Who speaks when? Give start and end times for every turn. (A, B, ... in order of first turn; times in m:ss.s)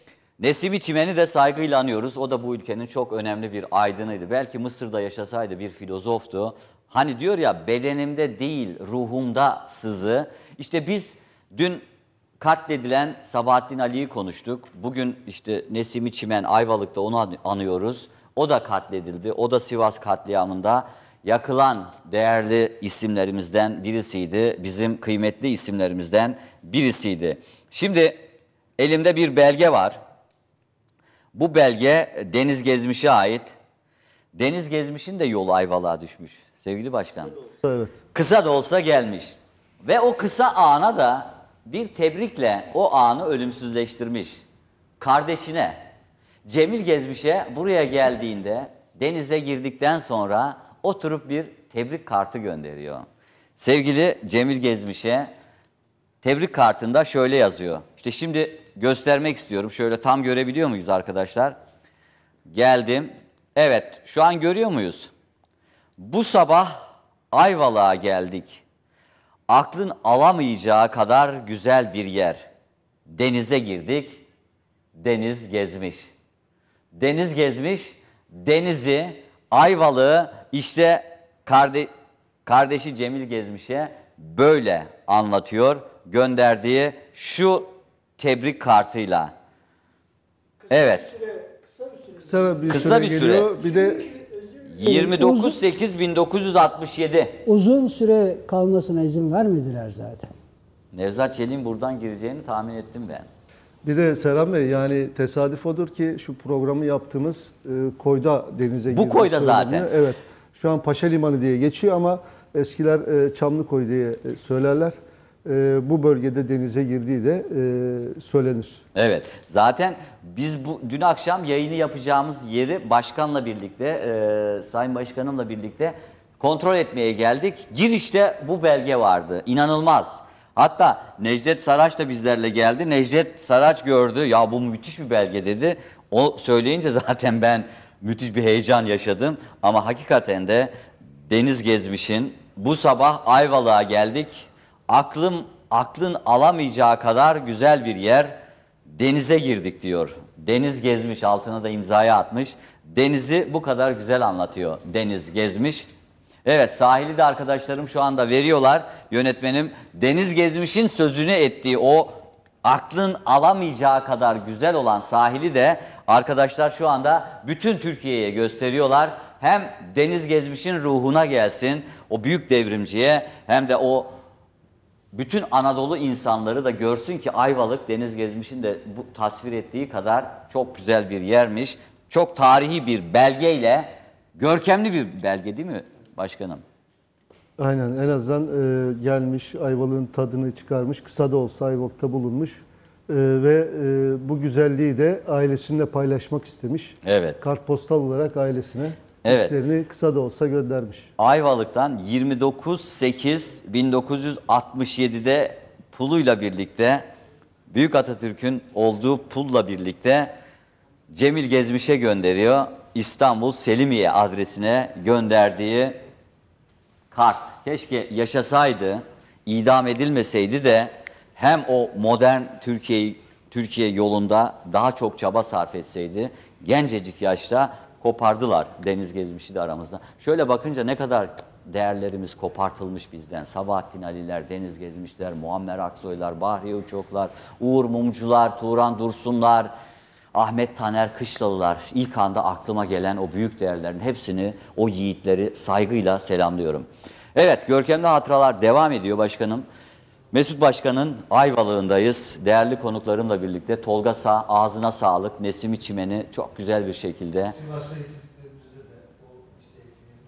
0:00.4-0:11.8 A
0:12.4-0:28.2 A
0:28.8-0:30.0 A
0:31.3-0:33.5 A
0:34.4-0:37.4 A
0:37.6-0:38.0 B
0:38.1-0:44.4 A
0:45.0-0:45.8 A
0:46.5-0:53.1 A
0:53.6-0:55.3 A
0:56.2-1:01.6 A
1:02.5-1:05.1 A
1:06.0-1:06.8 A
1:07.3-1:08.6 A
1:09.5-1:12.5 A
1:13.1-1:14.2 A
1:15.0-1:16.1 A
1:17.0-1:21.9 A
1:22.5-1:29.3 A
1:30.7-1:32.6 C
1:30.7-1:31.2 A
1:32.2-1:34.1 B
1:32.7-1:33.6 A
1:34.0-1:35.6 C
1:34.7-1:37.4 A
1:37.4-1:40.3 C
1:40.9-1:43.3 A
1:43.8-1:58.8 B
1:48.9-1:49.9 A
1:59.0-2:20.7 A
2:21.3-2:28.4 A
2:28.9-2:35.9 A
2:36.4-2:54.1 A
2:55.1-3:06.6 A
3:07.6-3:21.1 B
3:17.0-3:17.4 A
3:19.2-3:19.6 A
3:21.2-3:27.0 A
3:27.7-3:30.3 A
3:31.1-3:36.0 A
3:37.1-3:59.7 A
4:00.3-4:09.7 A
4:10.3-4:17.6 A
4:17.6-4:20.0 B